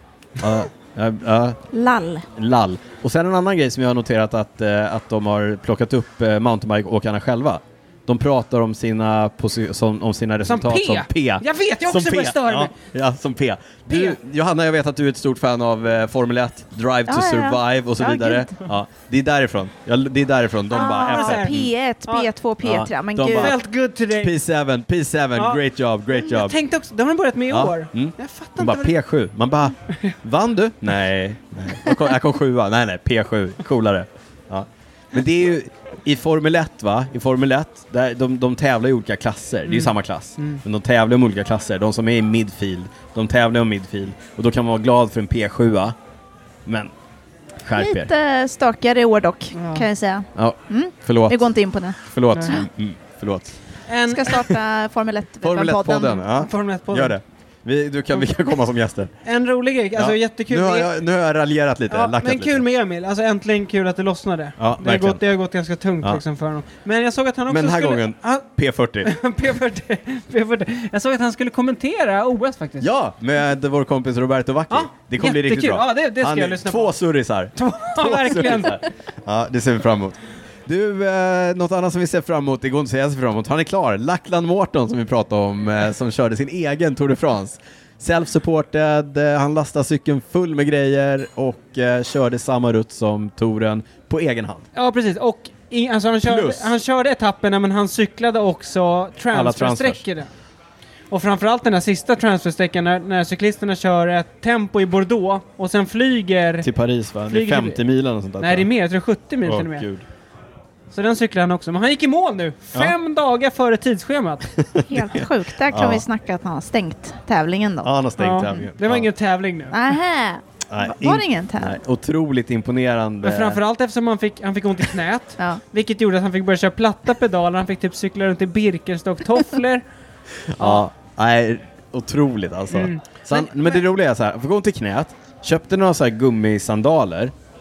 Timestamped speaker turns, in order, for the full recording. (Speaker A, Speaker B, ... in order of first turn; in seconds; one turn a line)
Speaker A: 0.4-1.6
Speaker B: 1.7-2.3
Speaker A: 2.4-21.7
Speaker C: 10.5-12.8
Speaker C: 13.9-14.2
Speaker B: 17.1-18.6
Speaker B: 20.7-23.6
Speaker C: 20.8-21.6
Speaker A: 22.6-23.6
Speaker C: 23.3-24.3
Speaker A: 24.1-26.6
Speaker C: 25.4-25.6
Speaker C: 26.1-28.9
Speaker A: 27.5-46.0
Speaker C: 39.7-40.6
Speaker A: 46.7-46.9
Speaker A: 47.6-48.1
Speaker B: 47.8-52.0
Speaker C: 49.5-49.9
Speaker A: 50.4-51.4
Speaker A: 52.0-53.6
Speaker C: 53.9-54.5
Speaker B: 54.1-56.2
Speaker A: 55.4-59.1
Speaker C: 56.3-57.1
Speaker C: 59.2-60.9
Speaker A: 60.0-62.6
Speaker C: 61.9-68.5
Speaker A: 64.6-65.2
Speaker A: 67.5-69.1
Speaker C: 69.0-72.9
Speaker A: 72.8-94.7
Speaker C: 74.7-77.0
Speaker C: 77.6-78.8
Speaker C: 94.8-100.3
Speaker A: 96.2-96.8
Speaker A: 99.3-100.0
Speaker C: 101.1-106.7
Speaker A: 106.6-108.7
Speaker C: 107.3-107.8
Speaker C: 108.4-109.9
Speaker A: 109.5-110.0
Speaker C: 110.9-114.5
Speaker A: 114.6-115.2
Speaker B: 114.8-117.9
Speaker A: 115.7-116.0
Speaker A: 117.8-119.1
Speaker C: 118.2-119.8
Speaker B: 119.7-121.8
Speaker A: 120.7-123.6
Speaker C: 123.2-129.8
Speaker A: 130.5-137.3
Speaker C: 130.6-130.9
Speaker C: 132.7-133.8